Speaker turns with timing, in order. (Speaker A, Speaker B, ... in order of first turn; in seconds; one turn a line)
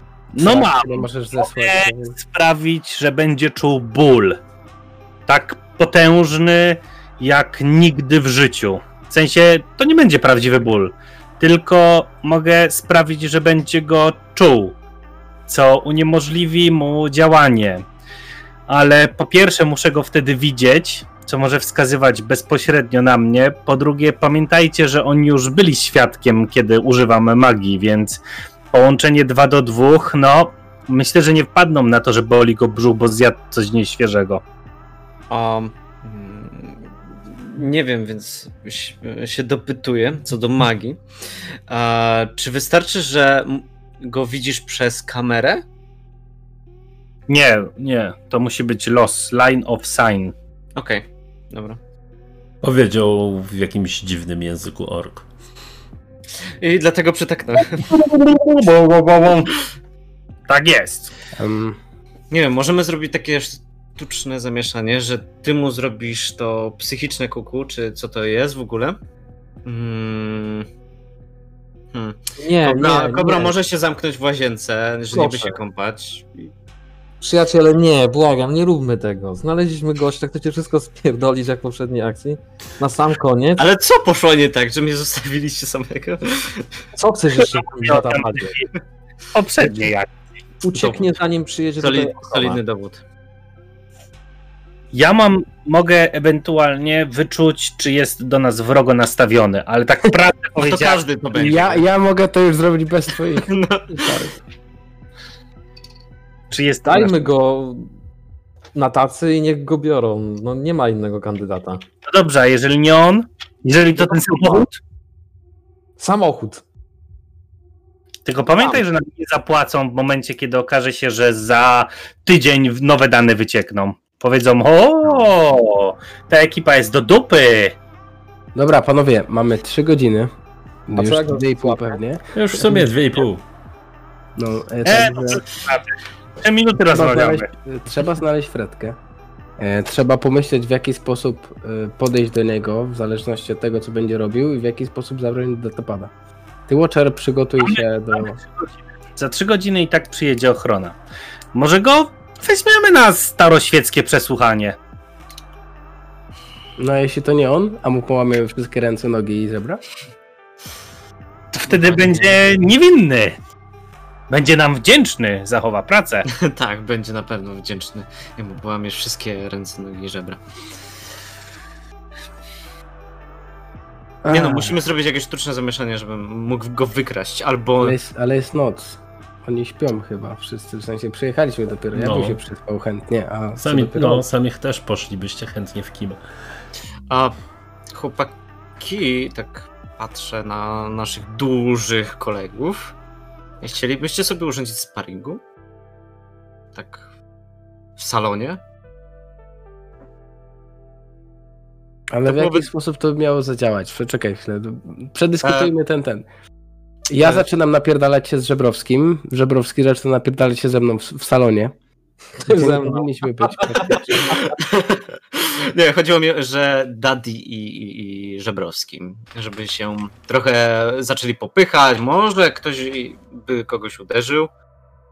Speaker A: 0.3-4.4
Speaker B: 0.4-2.2
Speaker A: 5.3-14.8
Speaker A: 15.5-17.9
Speaker A: 18.7-28.2
Speaker A: 28.7-34.4
Speaker C: 35.3-41.0
Speaker C: 41.7-45.6
Speaker A: 47.3-50.3
Speaker C: 50.8-51.8
Speaker D: 52.6-55.3
Speaker C: 56.6-57.9
Speaker A: 57.7-59.6
Speaker A: 60.5-61.1
Speaker B: 61.4-61.8
Speaker C: 62.3-69.0
Speaker C: 69.7-70.7
Speaker C: 71.9-76.5
Speaker E: 72.4-73.5
Speaker E: 75.1-75.6
Speaker E: 77.2-83.7
Speaker C: 83.6-86.8
Speaker E: 87.0-88.6
Speaker A: 87.8-88.7
Speaker A: 89.3-90.1
Speaker E: 90.6-92.6
Speaker C: 91.8-93.0
Speaker A: 94.9-101.0
Speaker C: 100.6-101.9
Speaker B: 101.3-104.3
Speaker C: 103.5-103.9
Speaker A: 106.5-107.2
Speaker E: 106.9-107.9
Speaker E: 108.7-111.8
Speaker A: 112.1-114.8
Speaker E: 116.0-116.6
Speaker A: 118.2-127.8
Speaker B: 128.6-130.3
Speaker B: 130.9-132.2
Speaker E: 130.9-132.0
Speaker D: 132.3-133.4
Speaker B: 134.4-135.4
Speaker A: 134.8-137.5
Speaker B: 136.9-139.0
Speaker B: 139.6-146.1
Speaker B: 146.7-148.4
Speaker A: 148.7-151.0
Speaker A: 151.5-154.8
Speaker B: 156.8-159.8
Speaker A: 161.6-163.4
Speaker C: 161.8-162.2
Speaker A: 164.3-166.3
Speaker C: 166.3-170.4
Speaker B: 174.2-174.8
Speaker C: 174.3-178.0
Speaker B: 177.8-184.2
Speaker D: 181.9-182.4
Speaker D: 183.6-186.2
Speaker C: 187.1-187.4
Speaker C: 187.9-193.0
Speaker C: 193.6-195.4
Speaker C: 196.7-197.1
Speaker C: 198.0-198.6
Speaker B: 202.1-206.3
Speaker C: 202.3-202.7
Speaker C: 205.4-205.7
Speaker B: 207.1-211.7
Speaker E: 212.4-213.8
Speaker B: 212.5-214.6
Speaker C: 214.3-224.5